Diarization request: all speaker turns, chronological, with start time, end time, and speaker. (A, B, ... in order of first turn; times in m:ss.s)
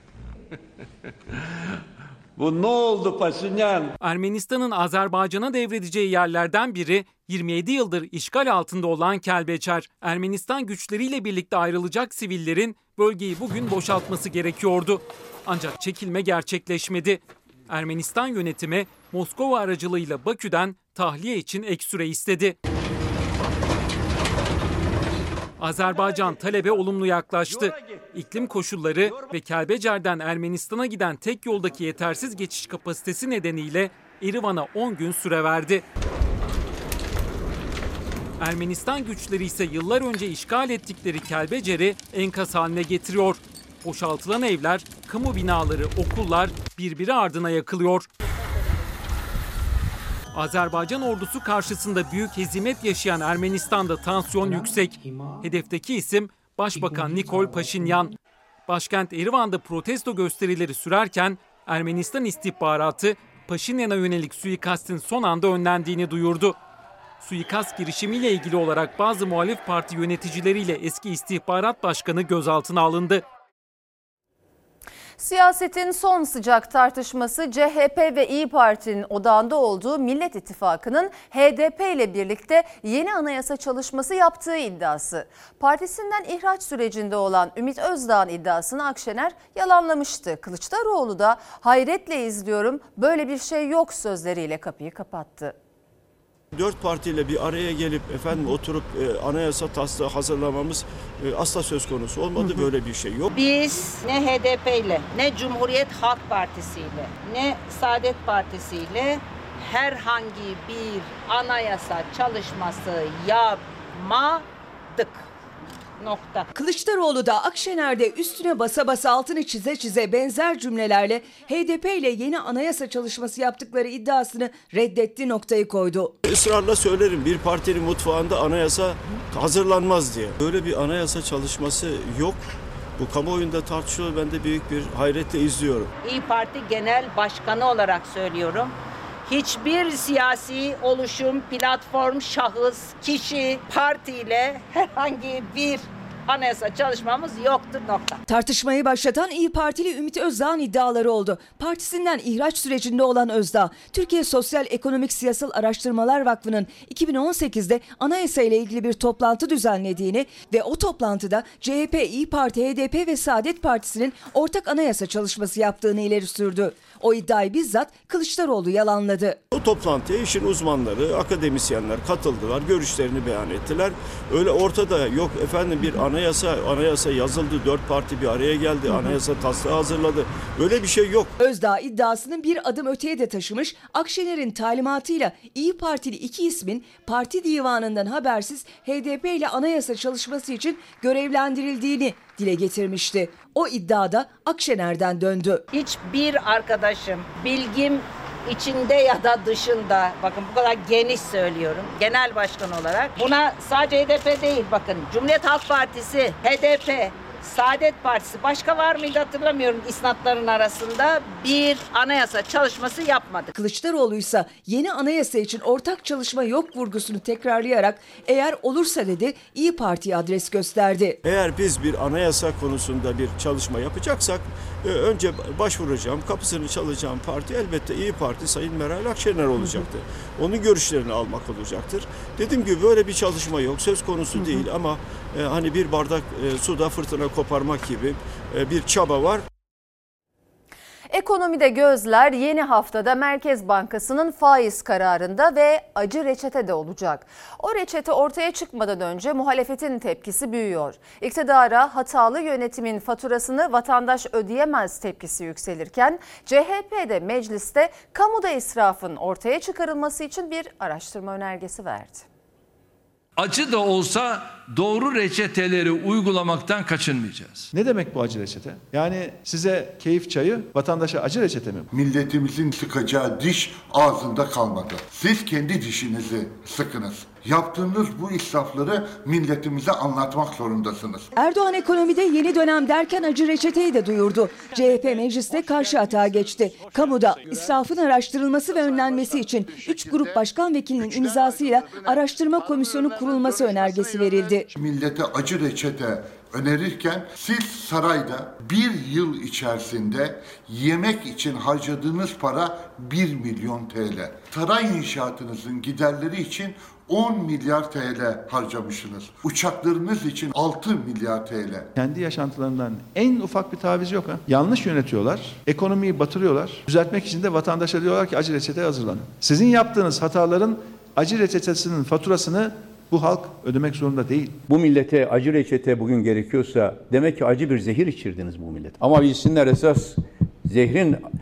0:04.0-0:22.6 A
0:25.6-0:35.8 A
0:38.4-0:48.1 A
0:50.3-0:58.1 A
0:58.7-1:06.6 A
1:07.2-1:13.2 A
1:15.2-1:35.6 B
1:36.5-1:43.3 C
1:43.3-1:55.3 D
1:56.0-1:56.5 D
1:56.5-2:06.1 E
2:06.2-2:12.4 C
2:13.0-2:15.9 C
2:16.0-2:18.7 D
2:19.3-2:28.2 D
2:28.3-2:49.4 E
2:49.5-3:01.4 C
3:01.4-3:15.6 E
3:15.7-3:33.5 D
3:33.6-3:41.2 E
3:41.2-3:59.4 C
4:01.1-4:22.2 B
4:23.4-4:27.7 F
4:27.7-4:31.9 G
4:31.9-4:41.3 H
4:41.4-4:54.6 E
4:54.7-5:11.9 H
5:12.0-5:24.6 G
5:24.7-5:30.1 I
5:30.7-5:31.2 I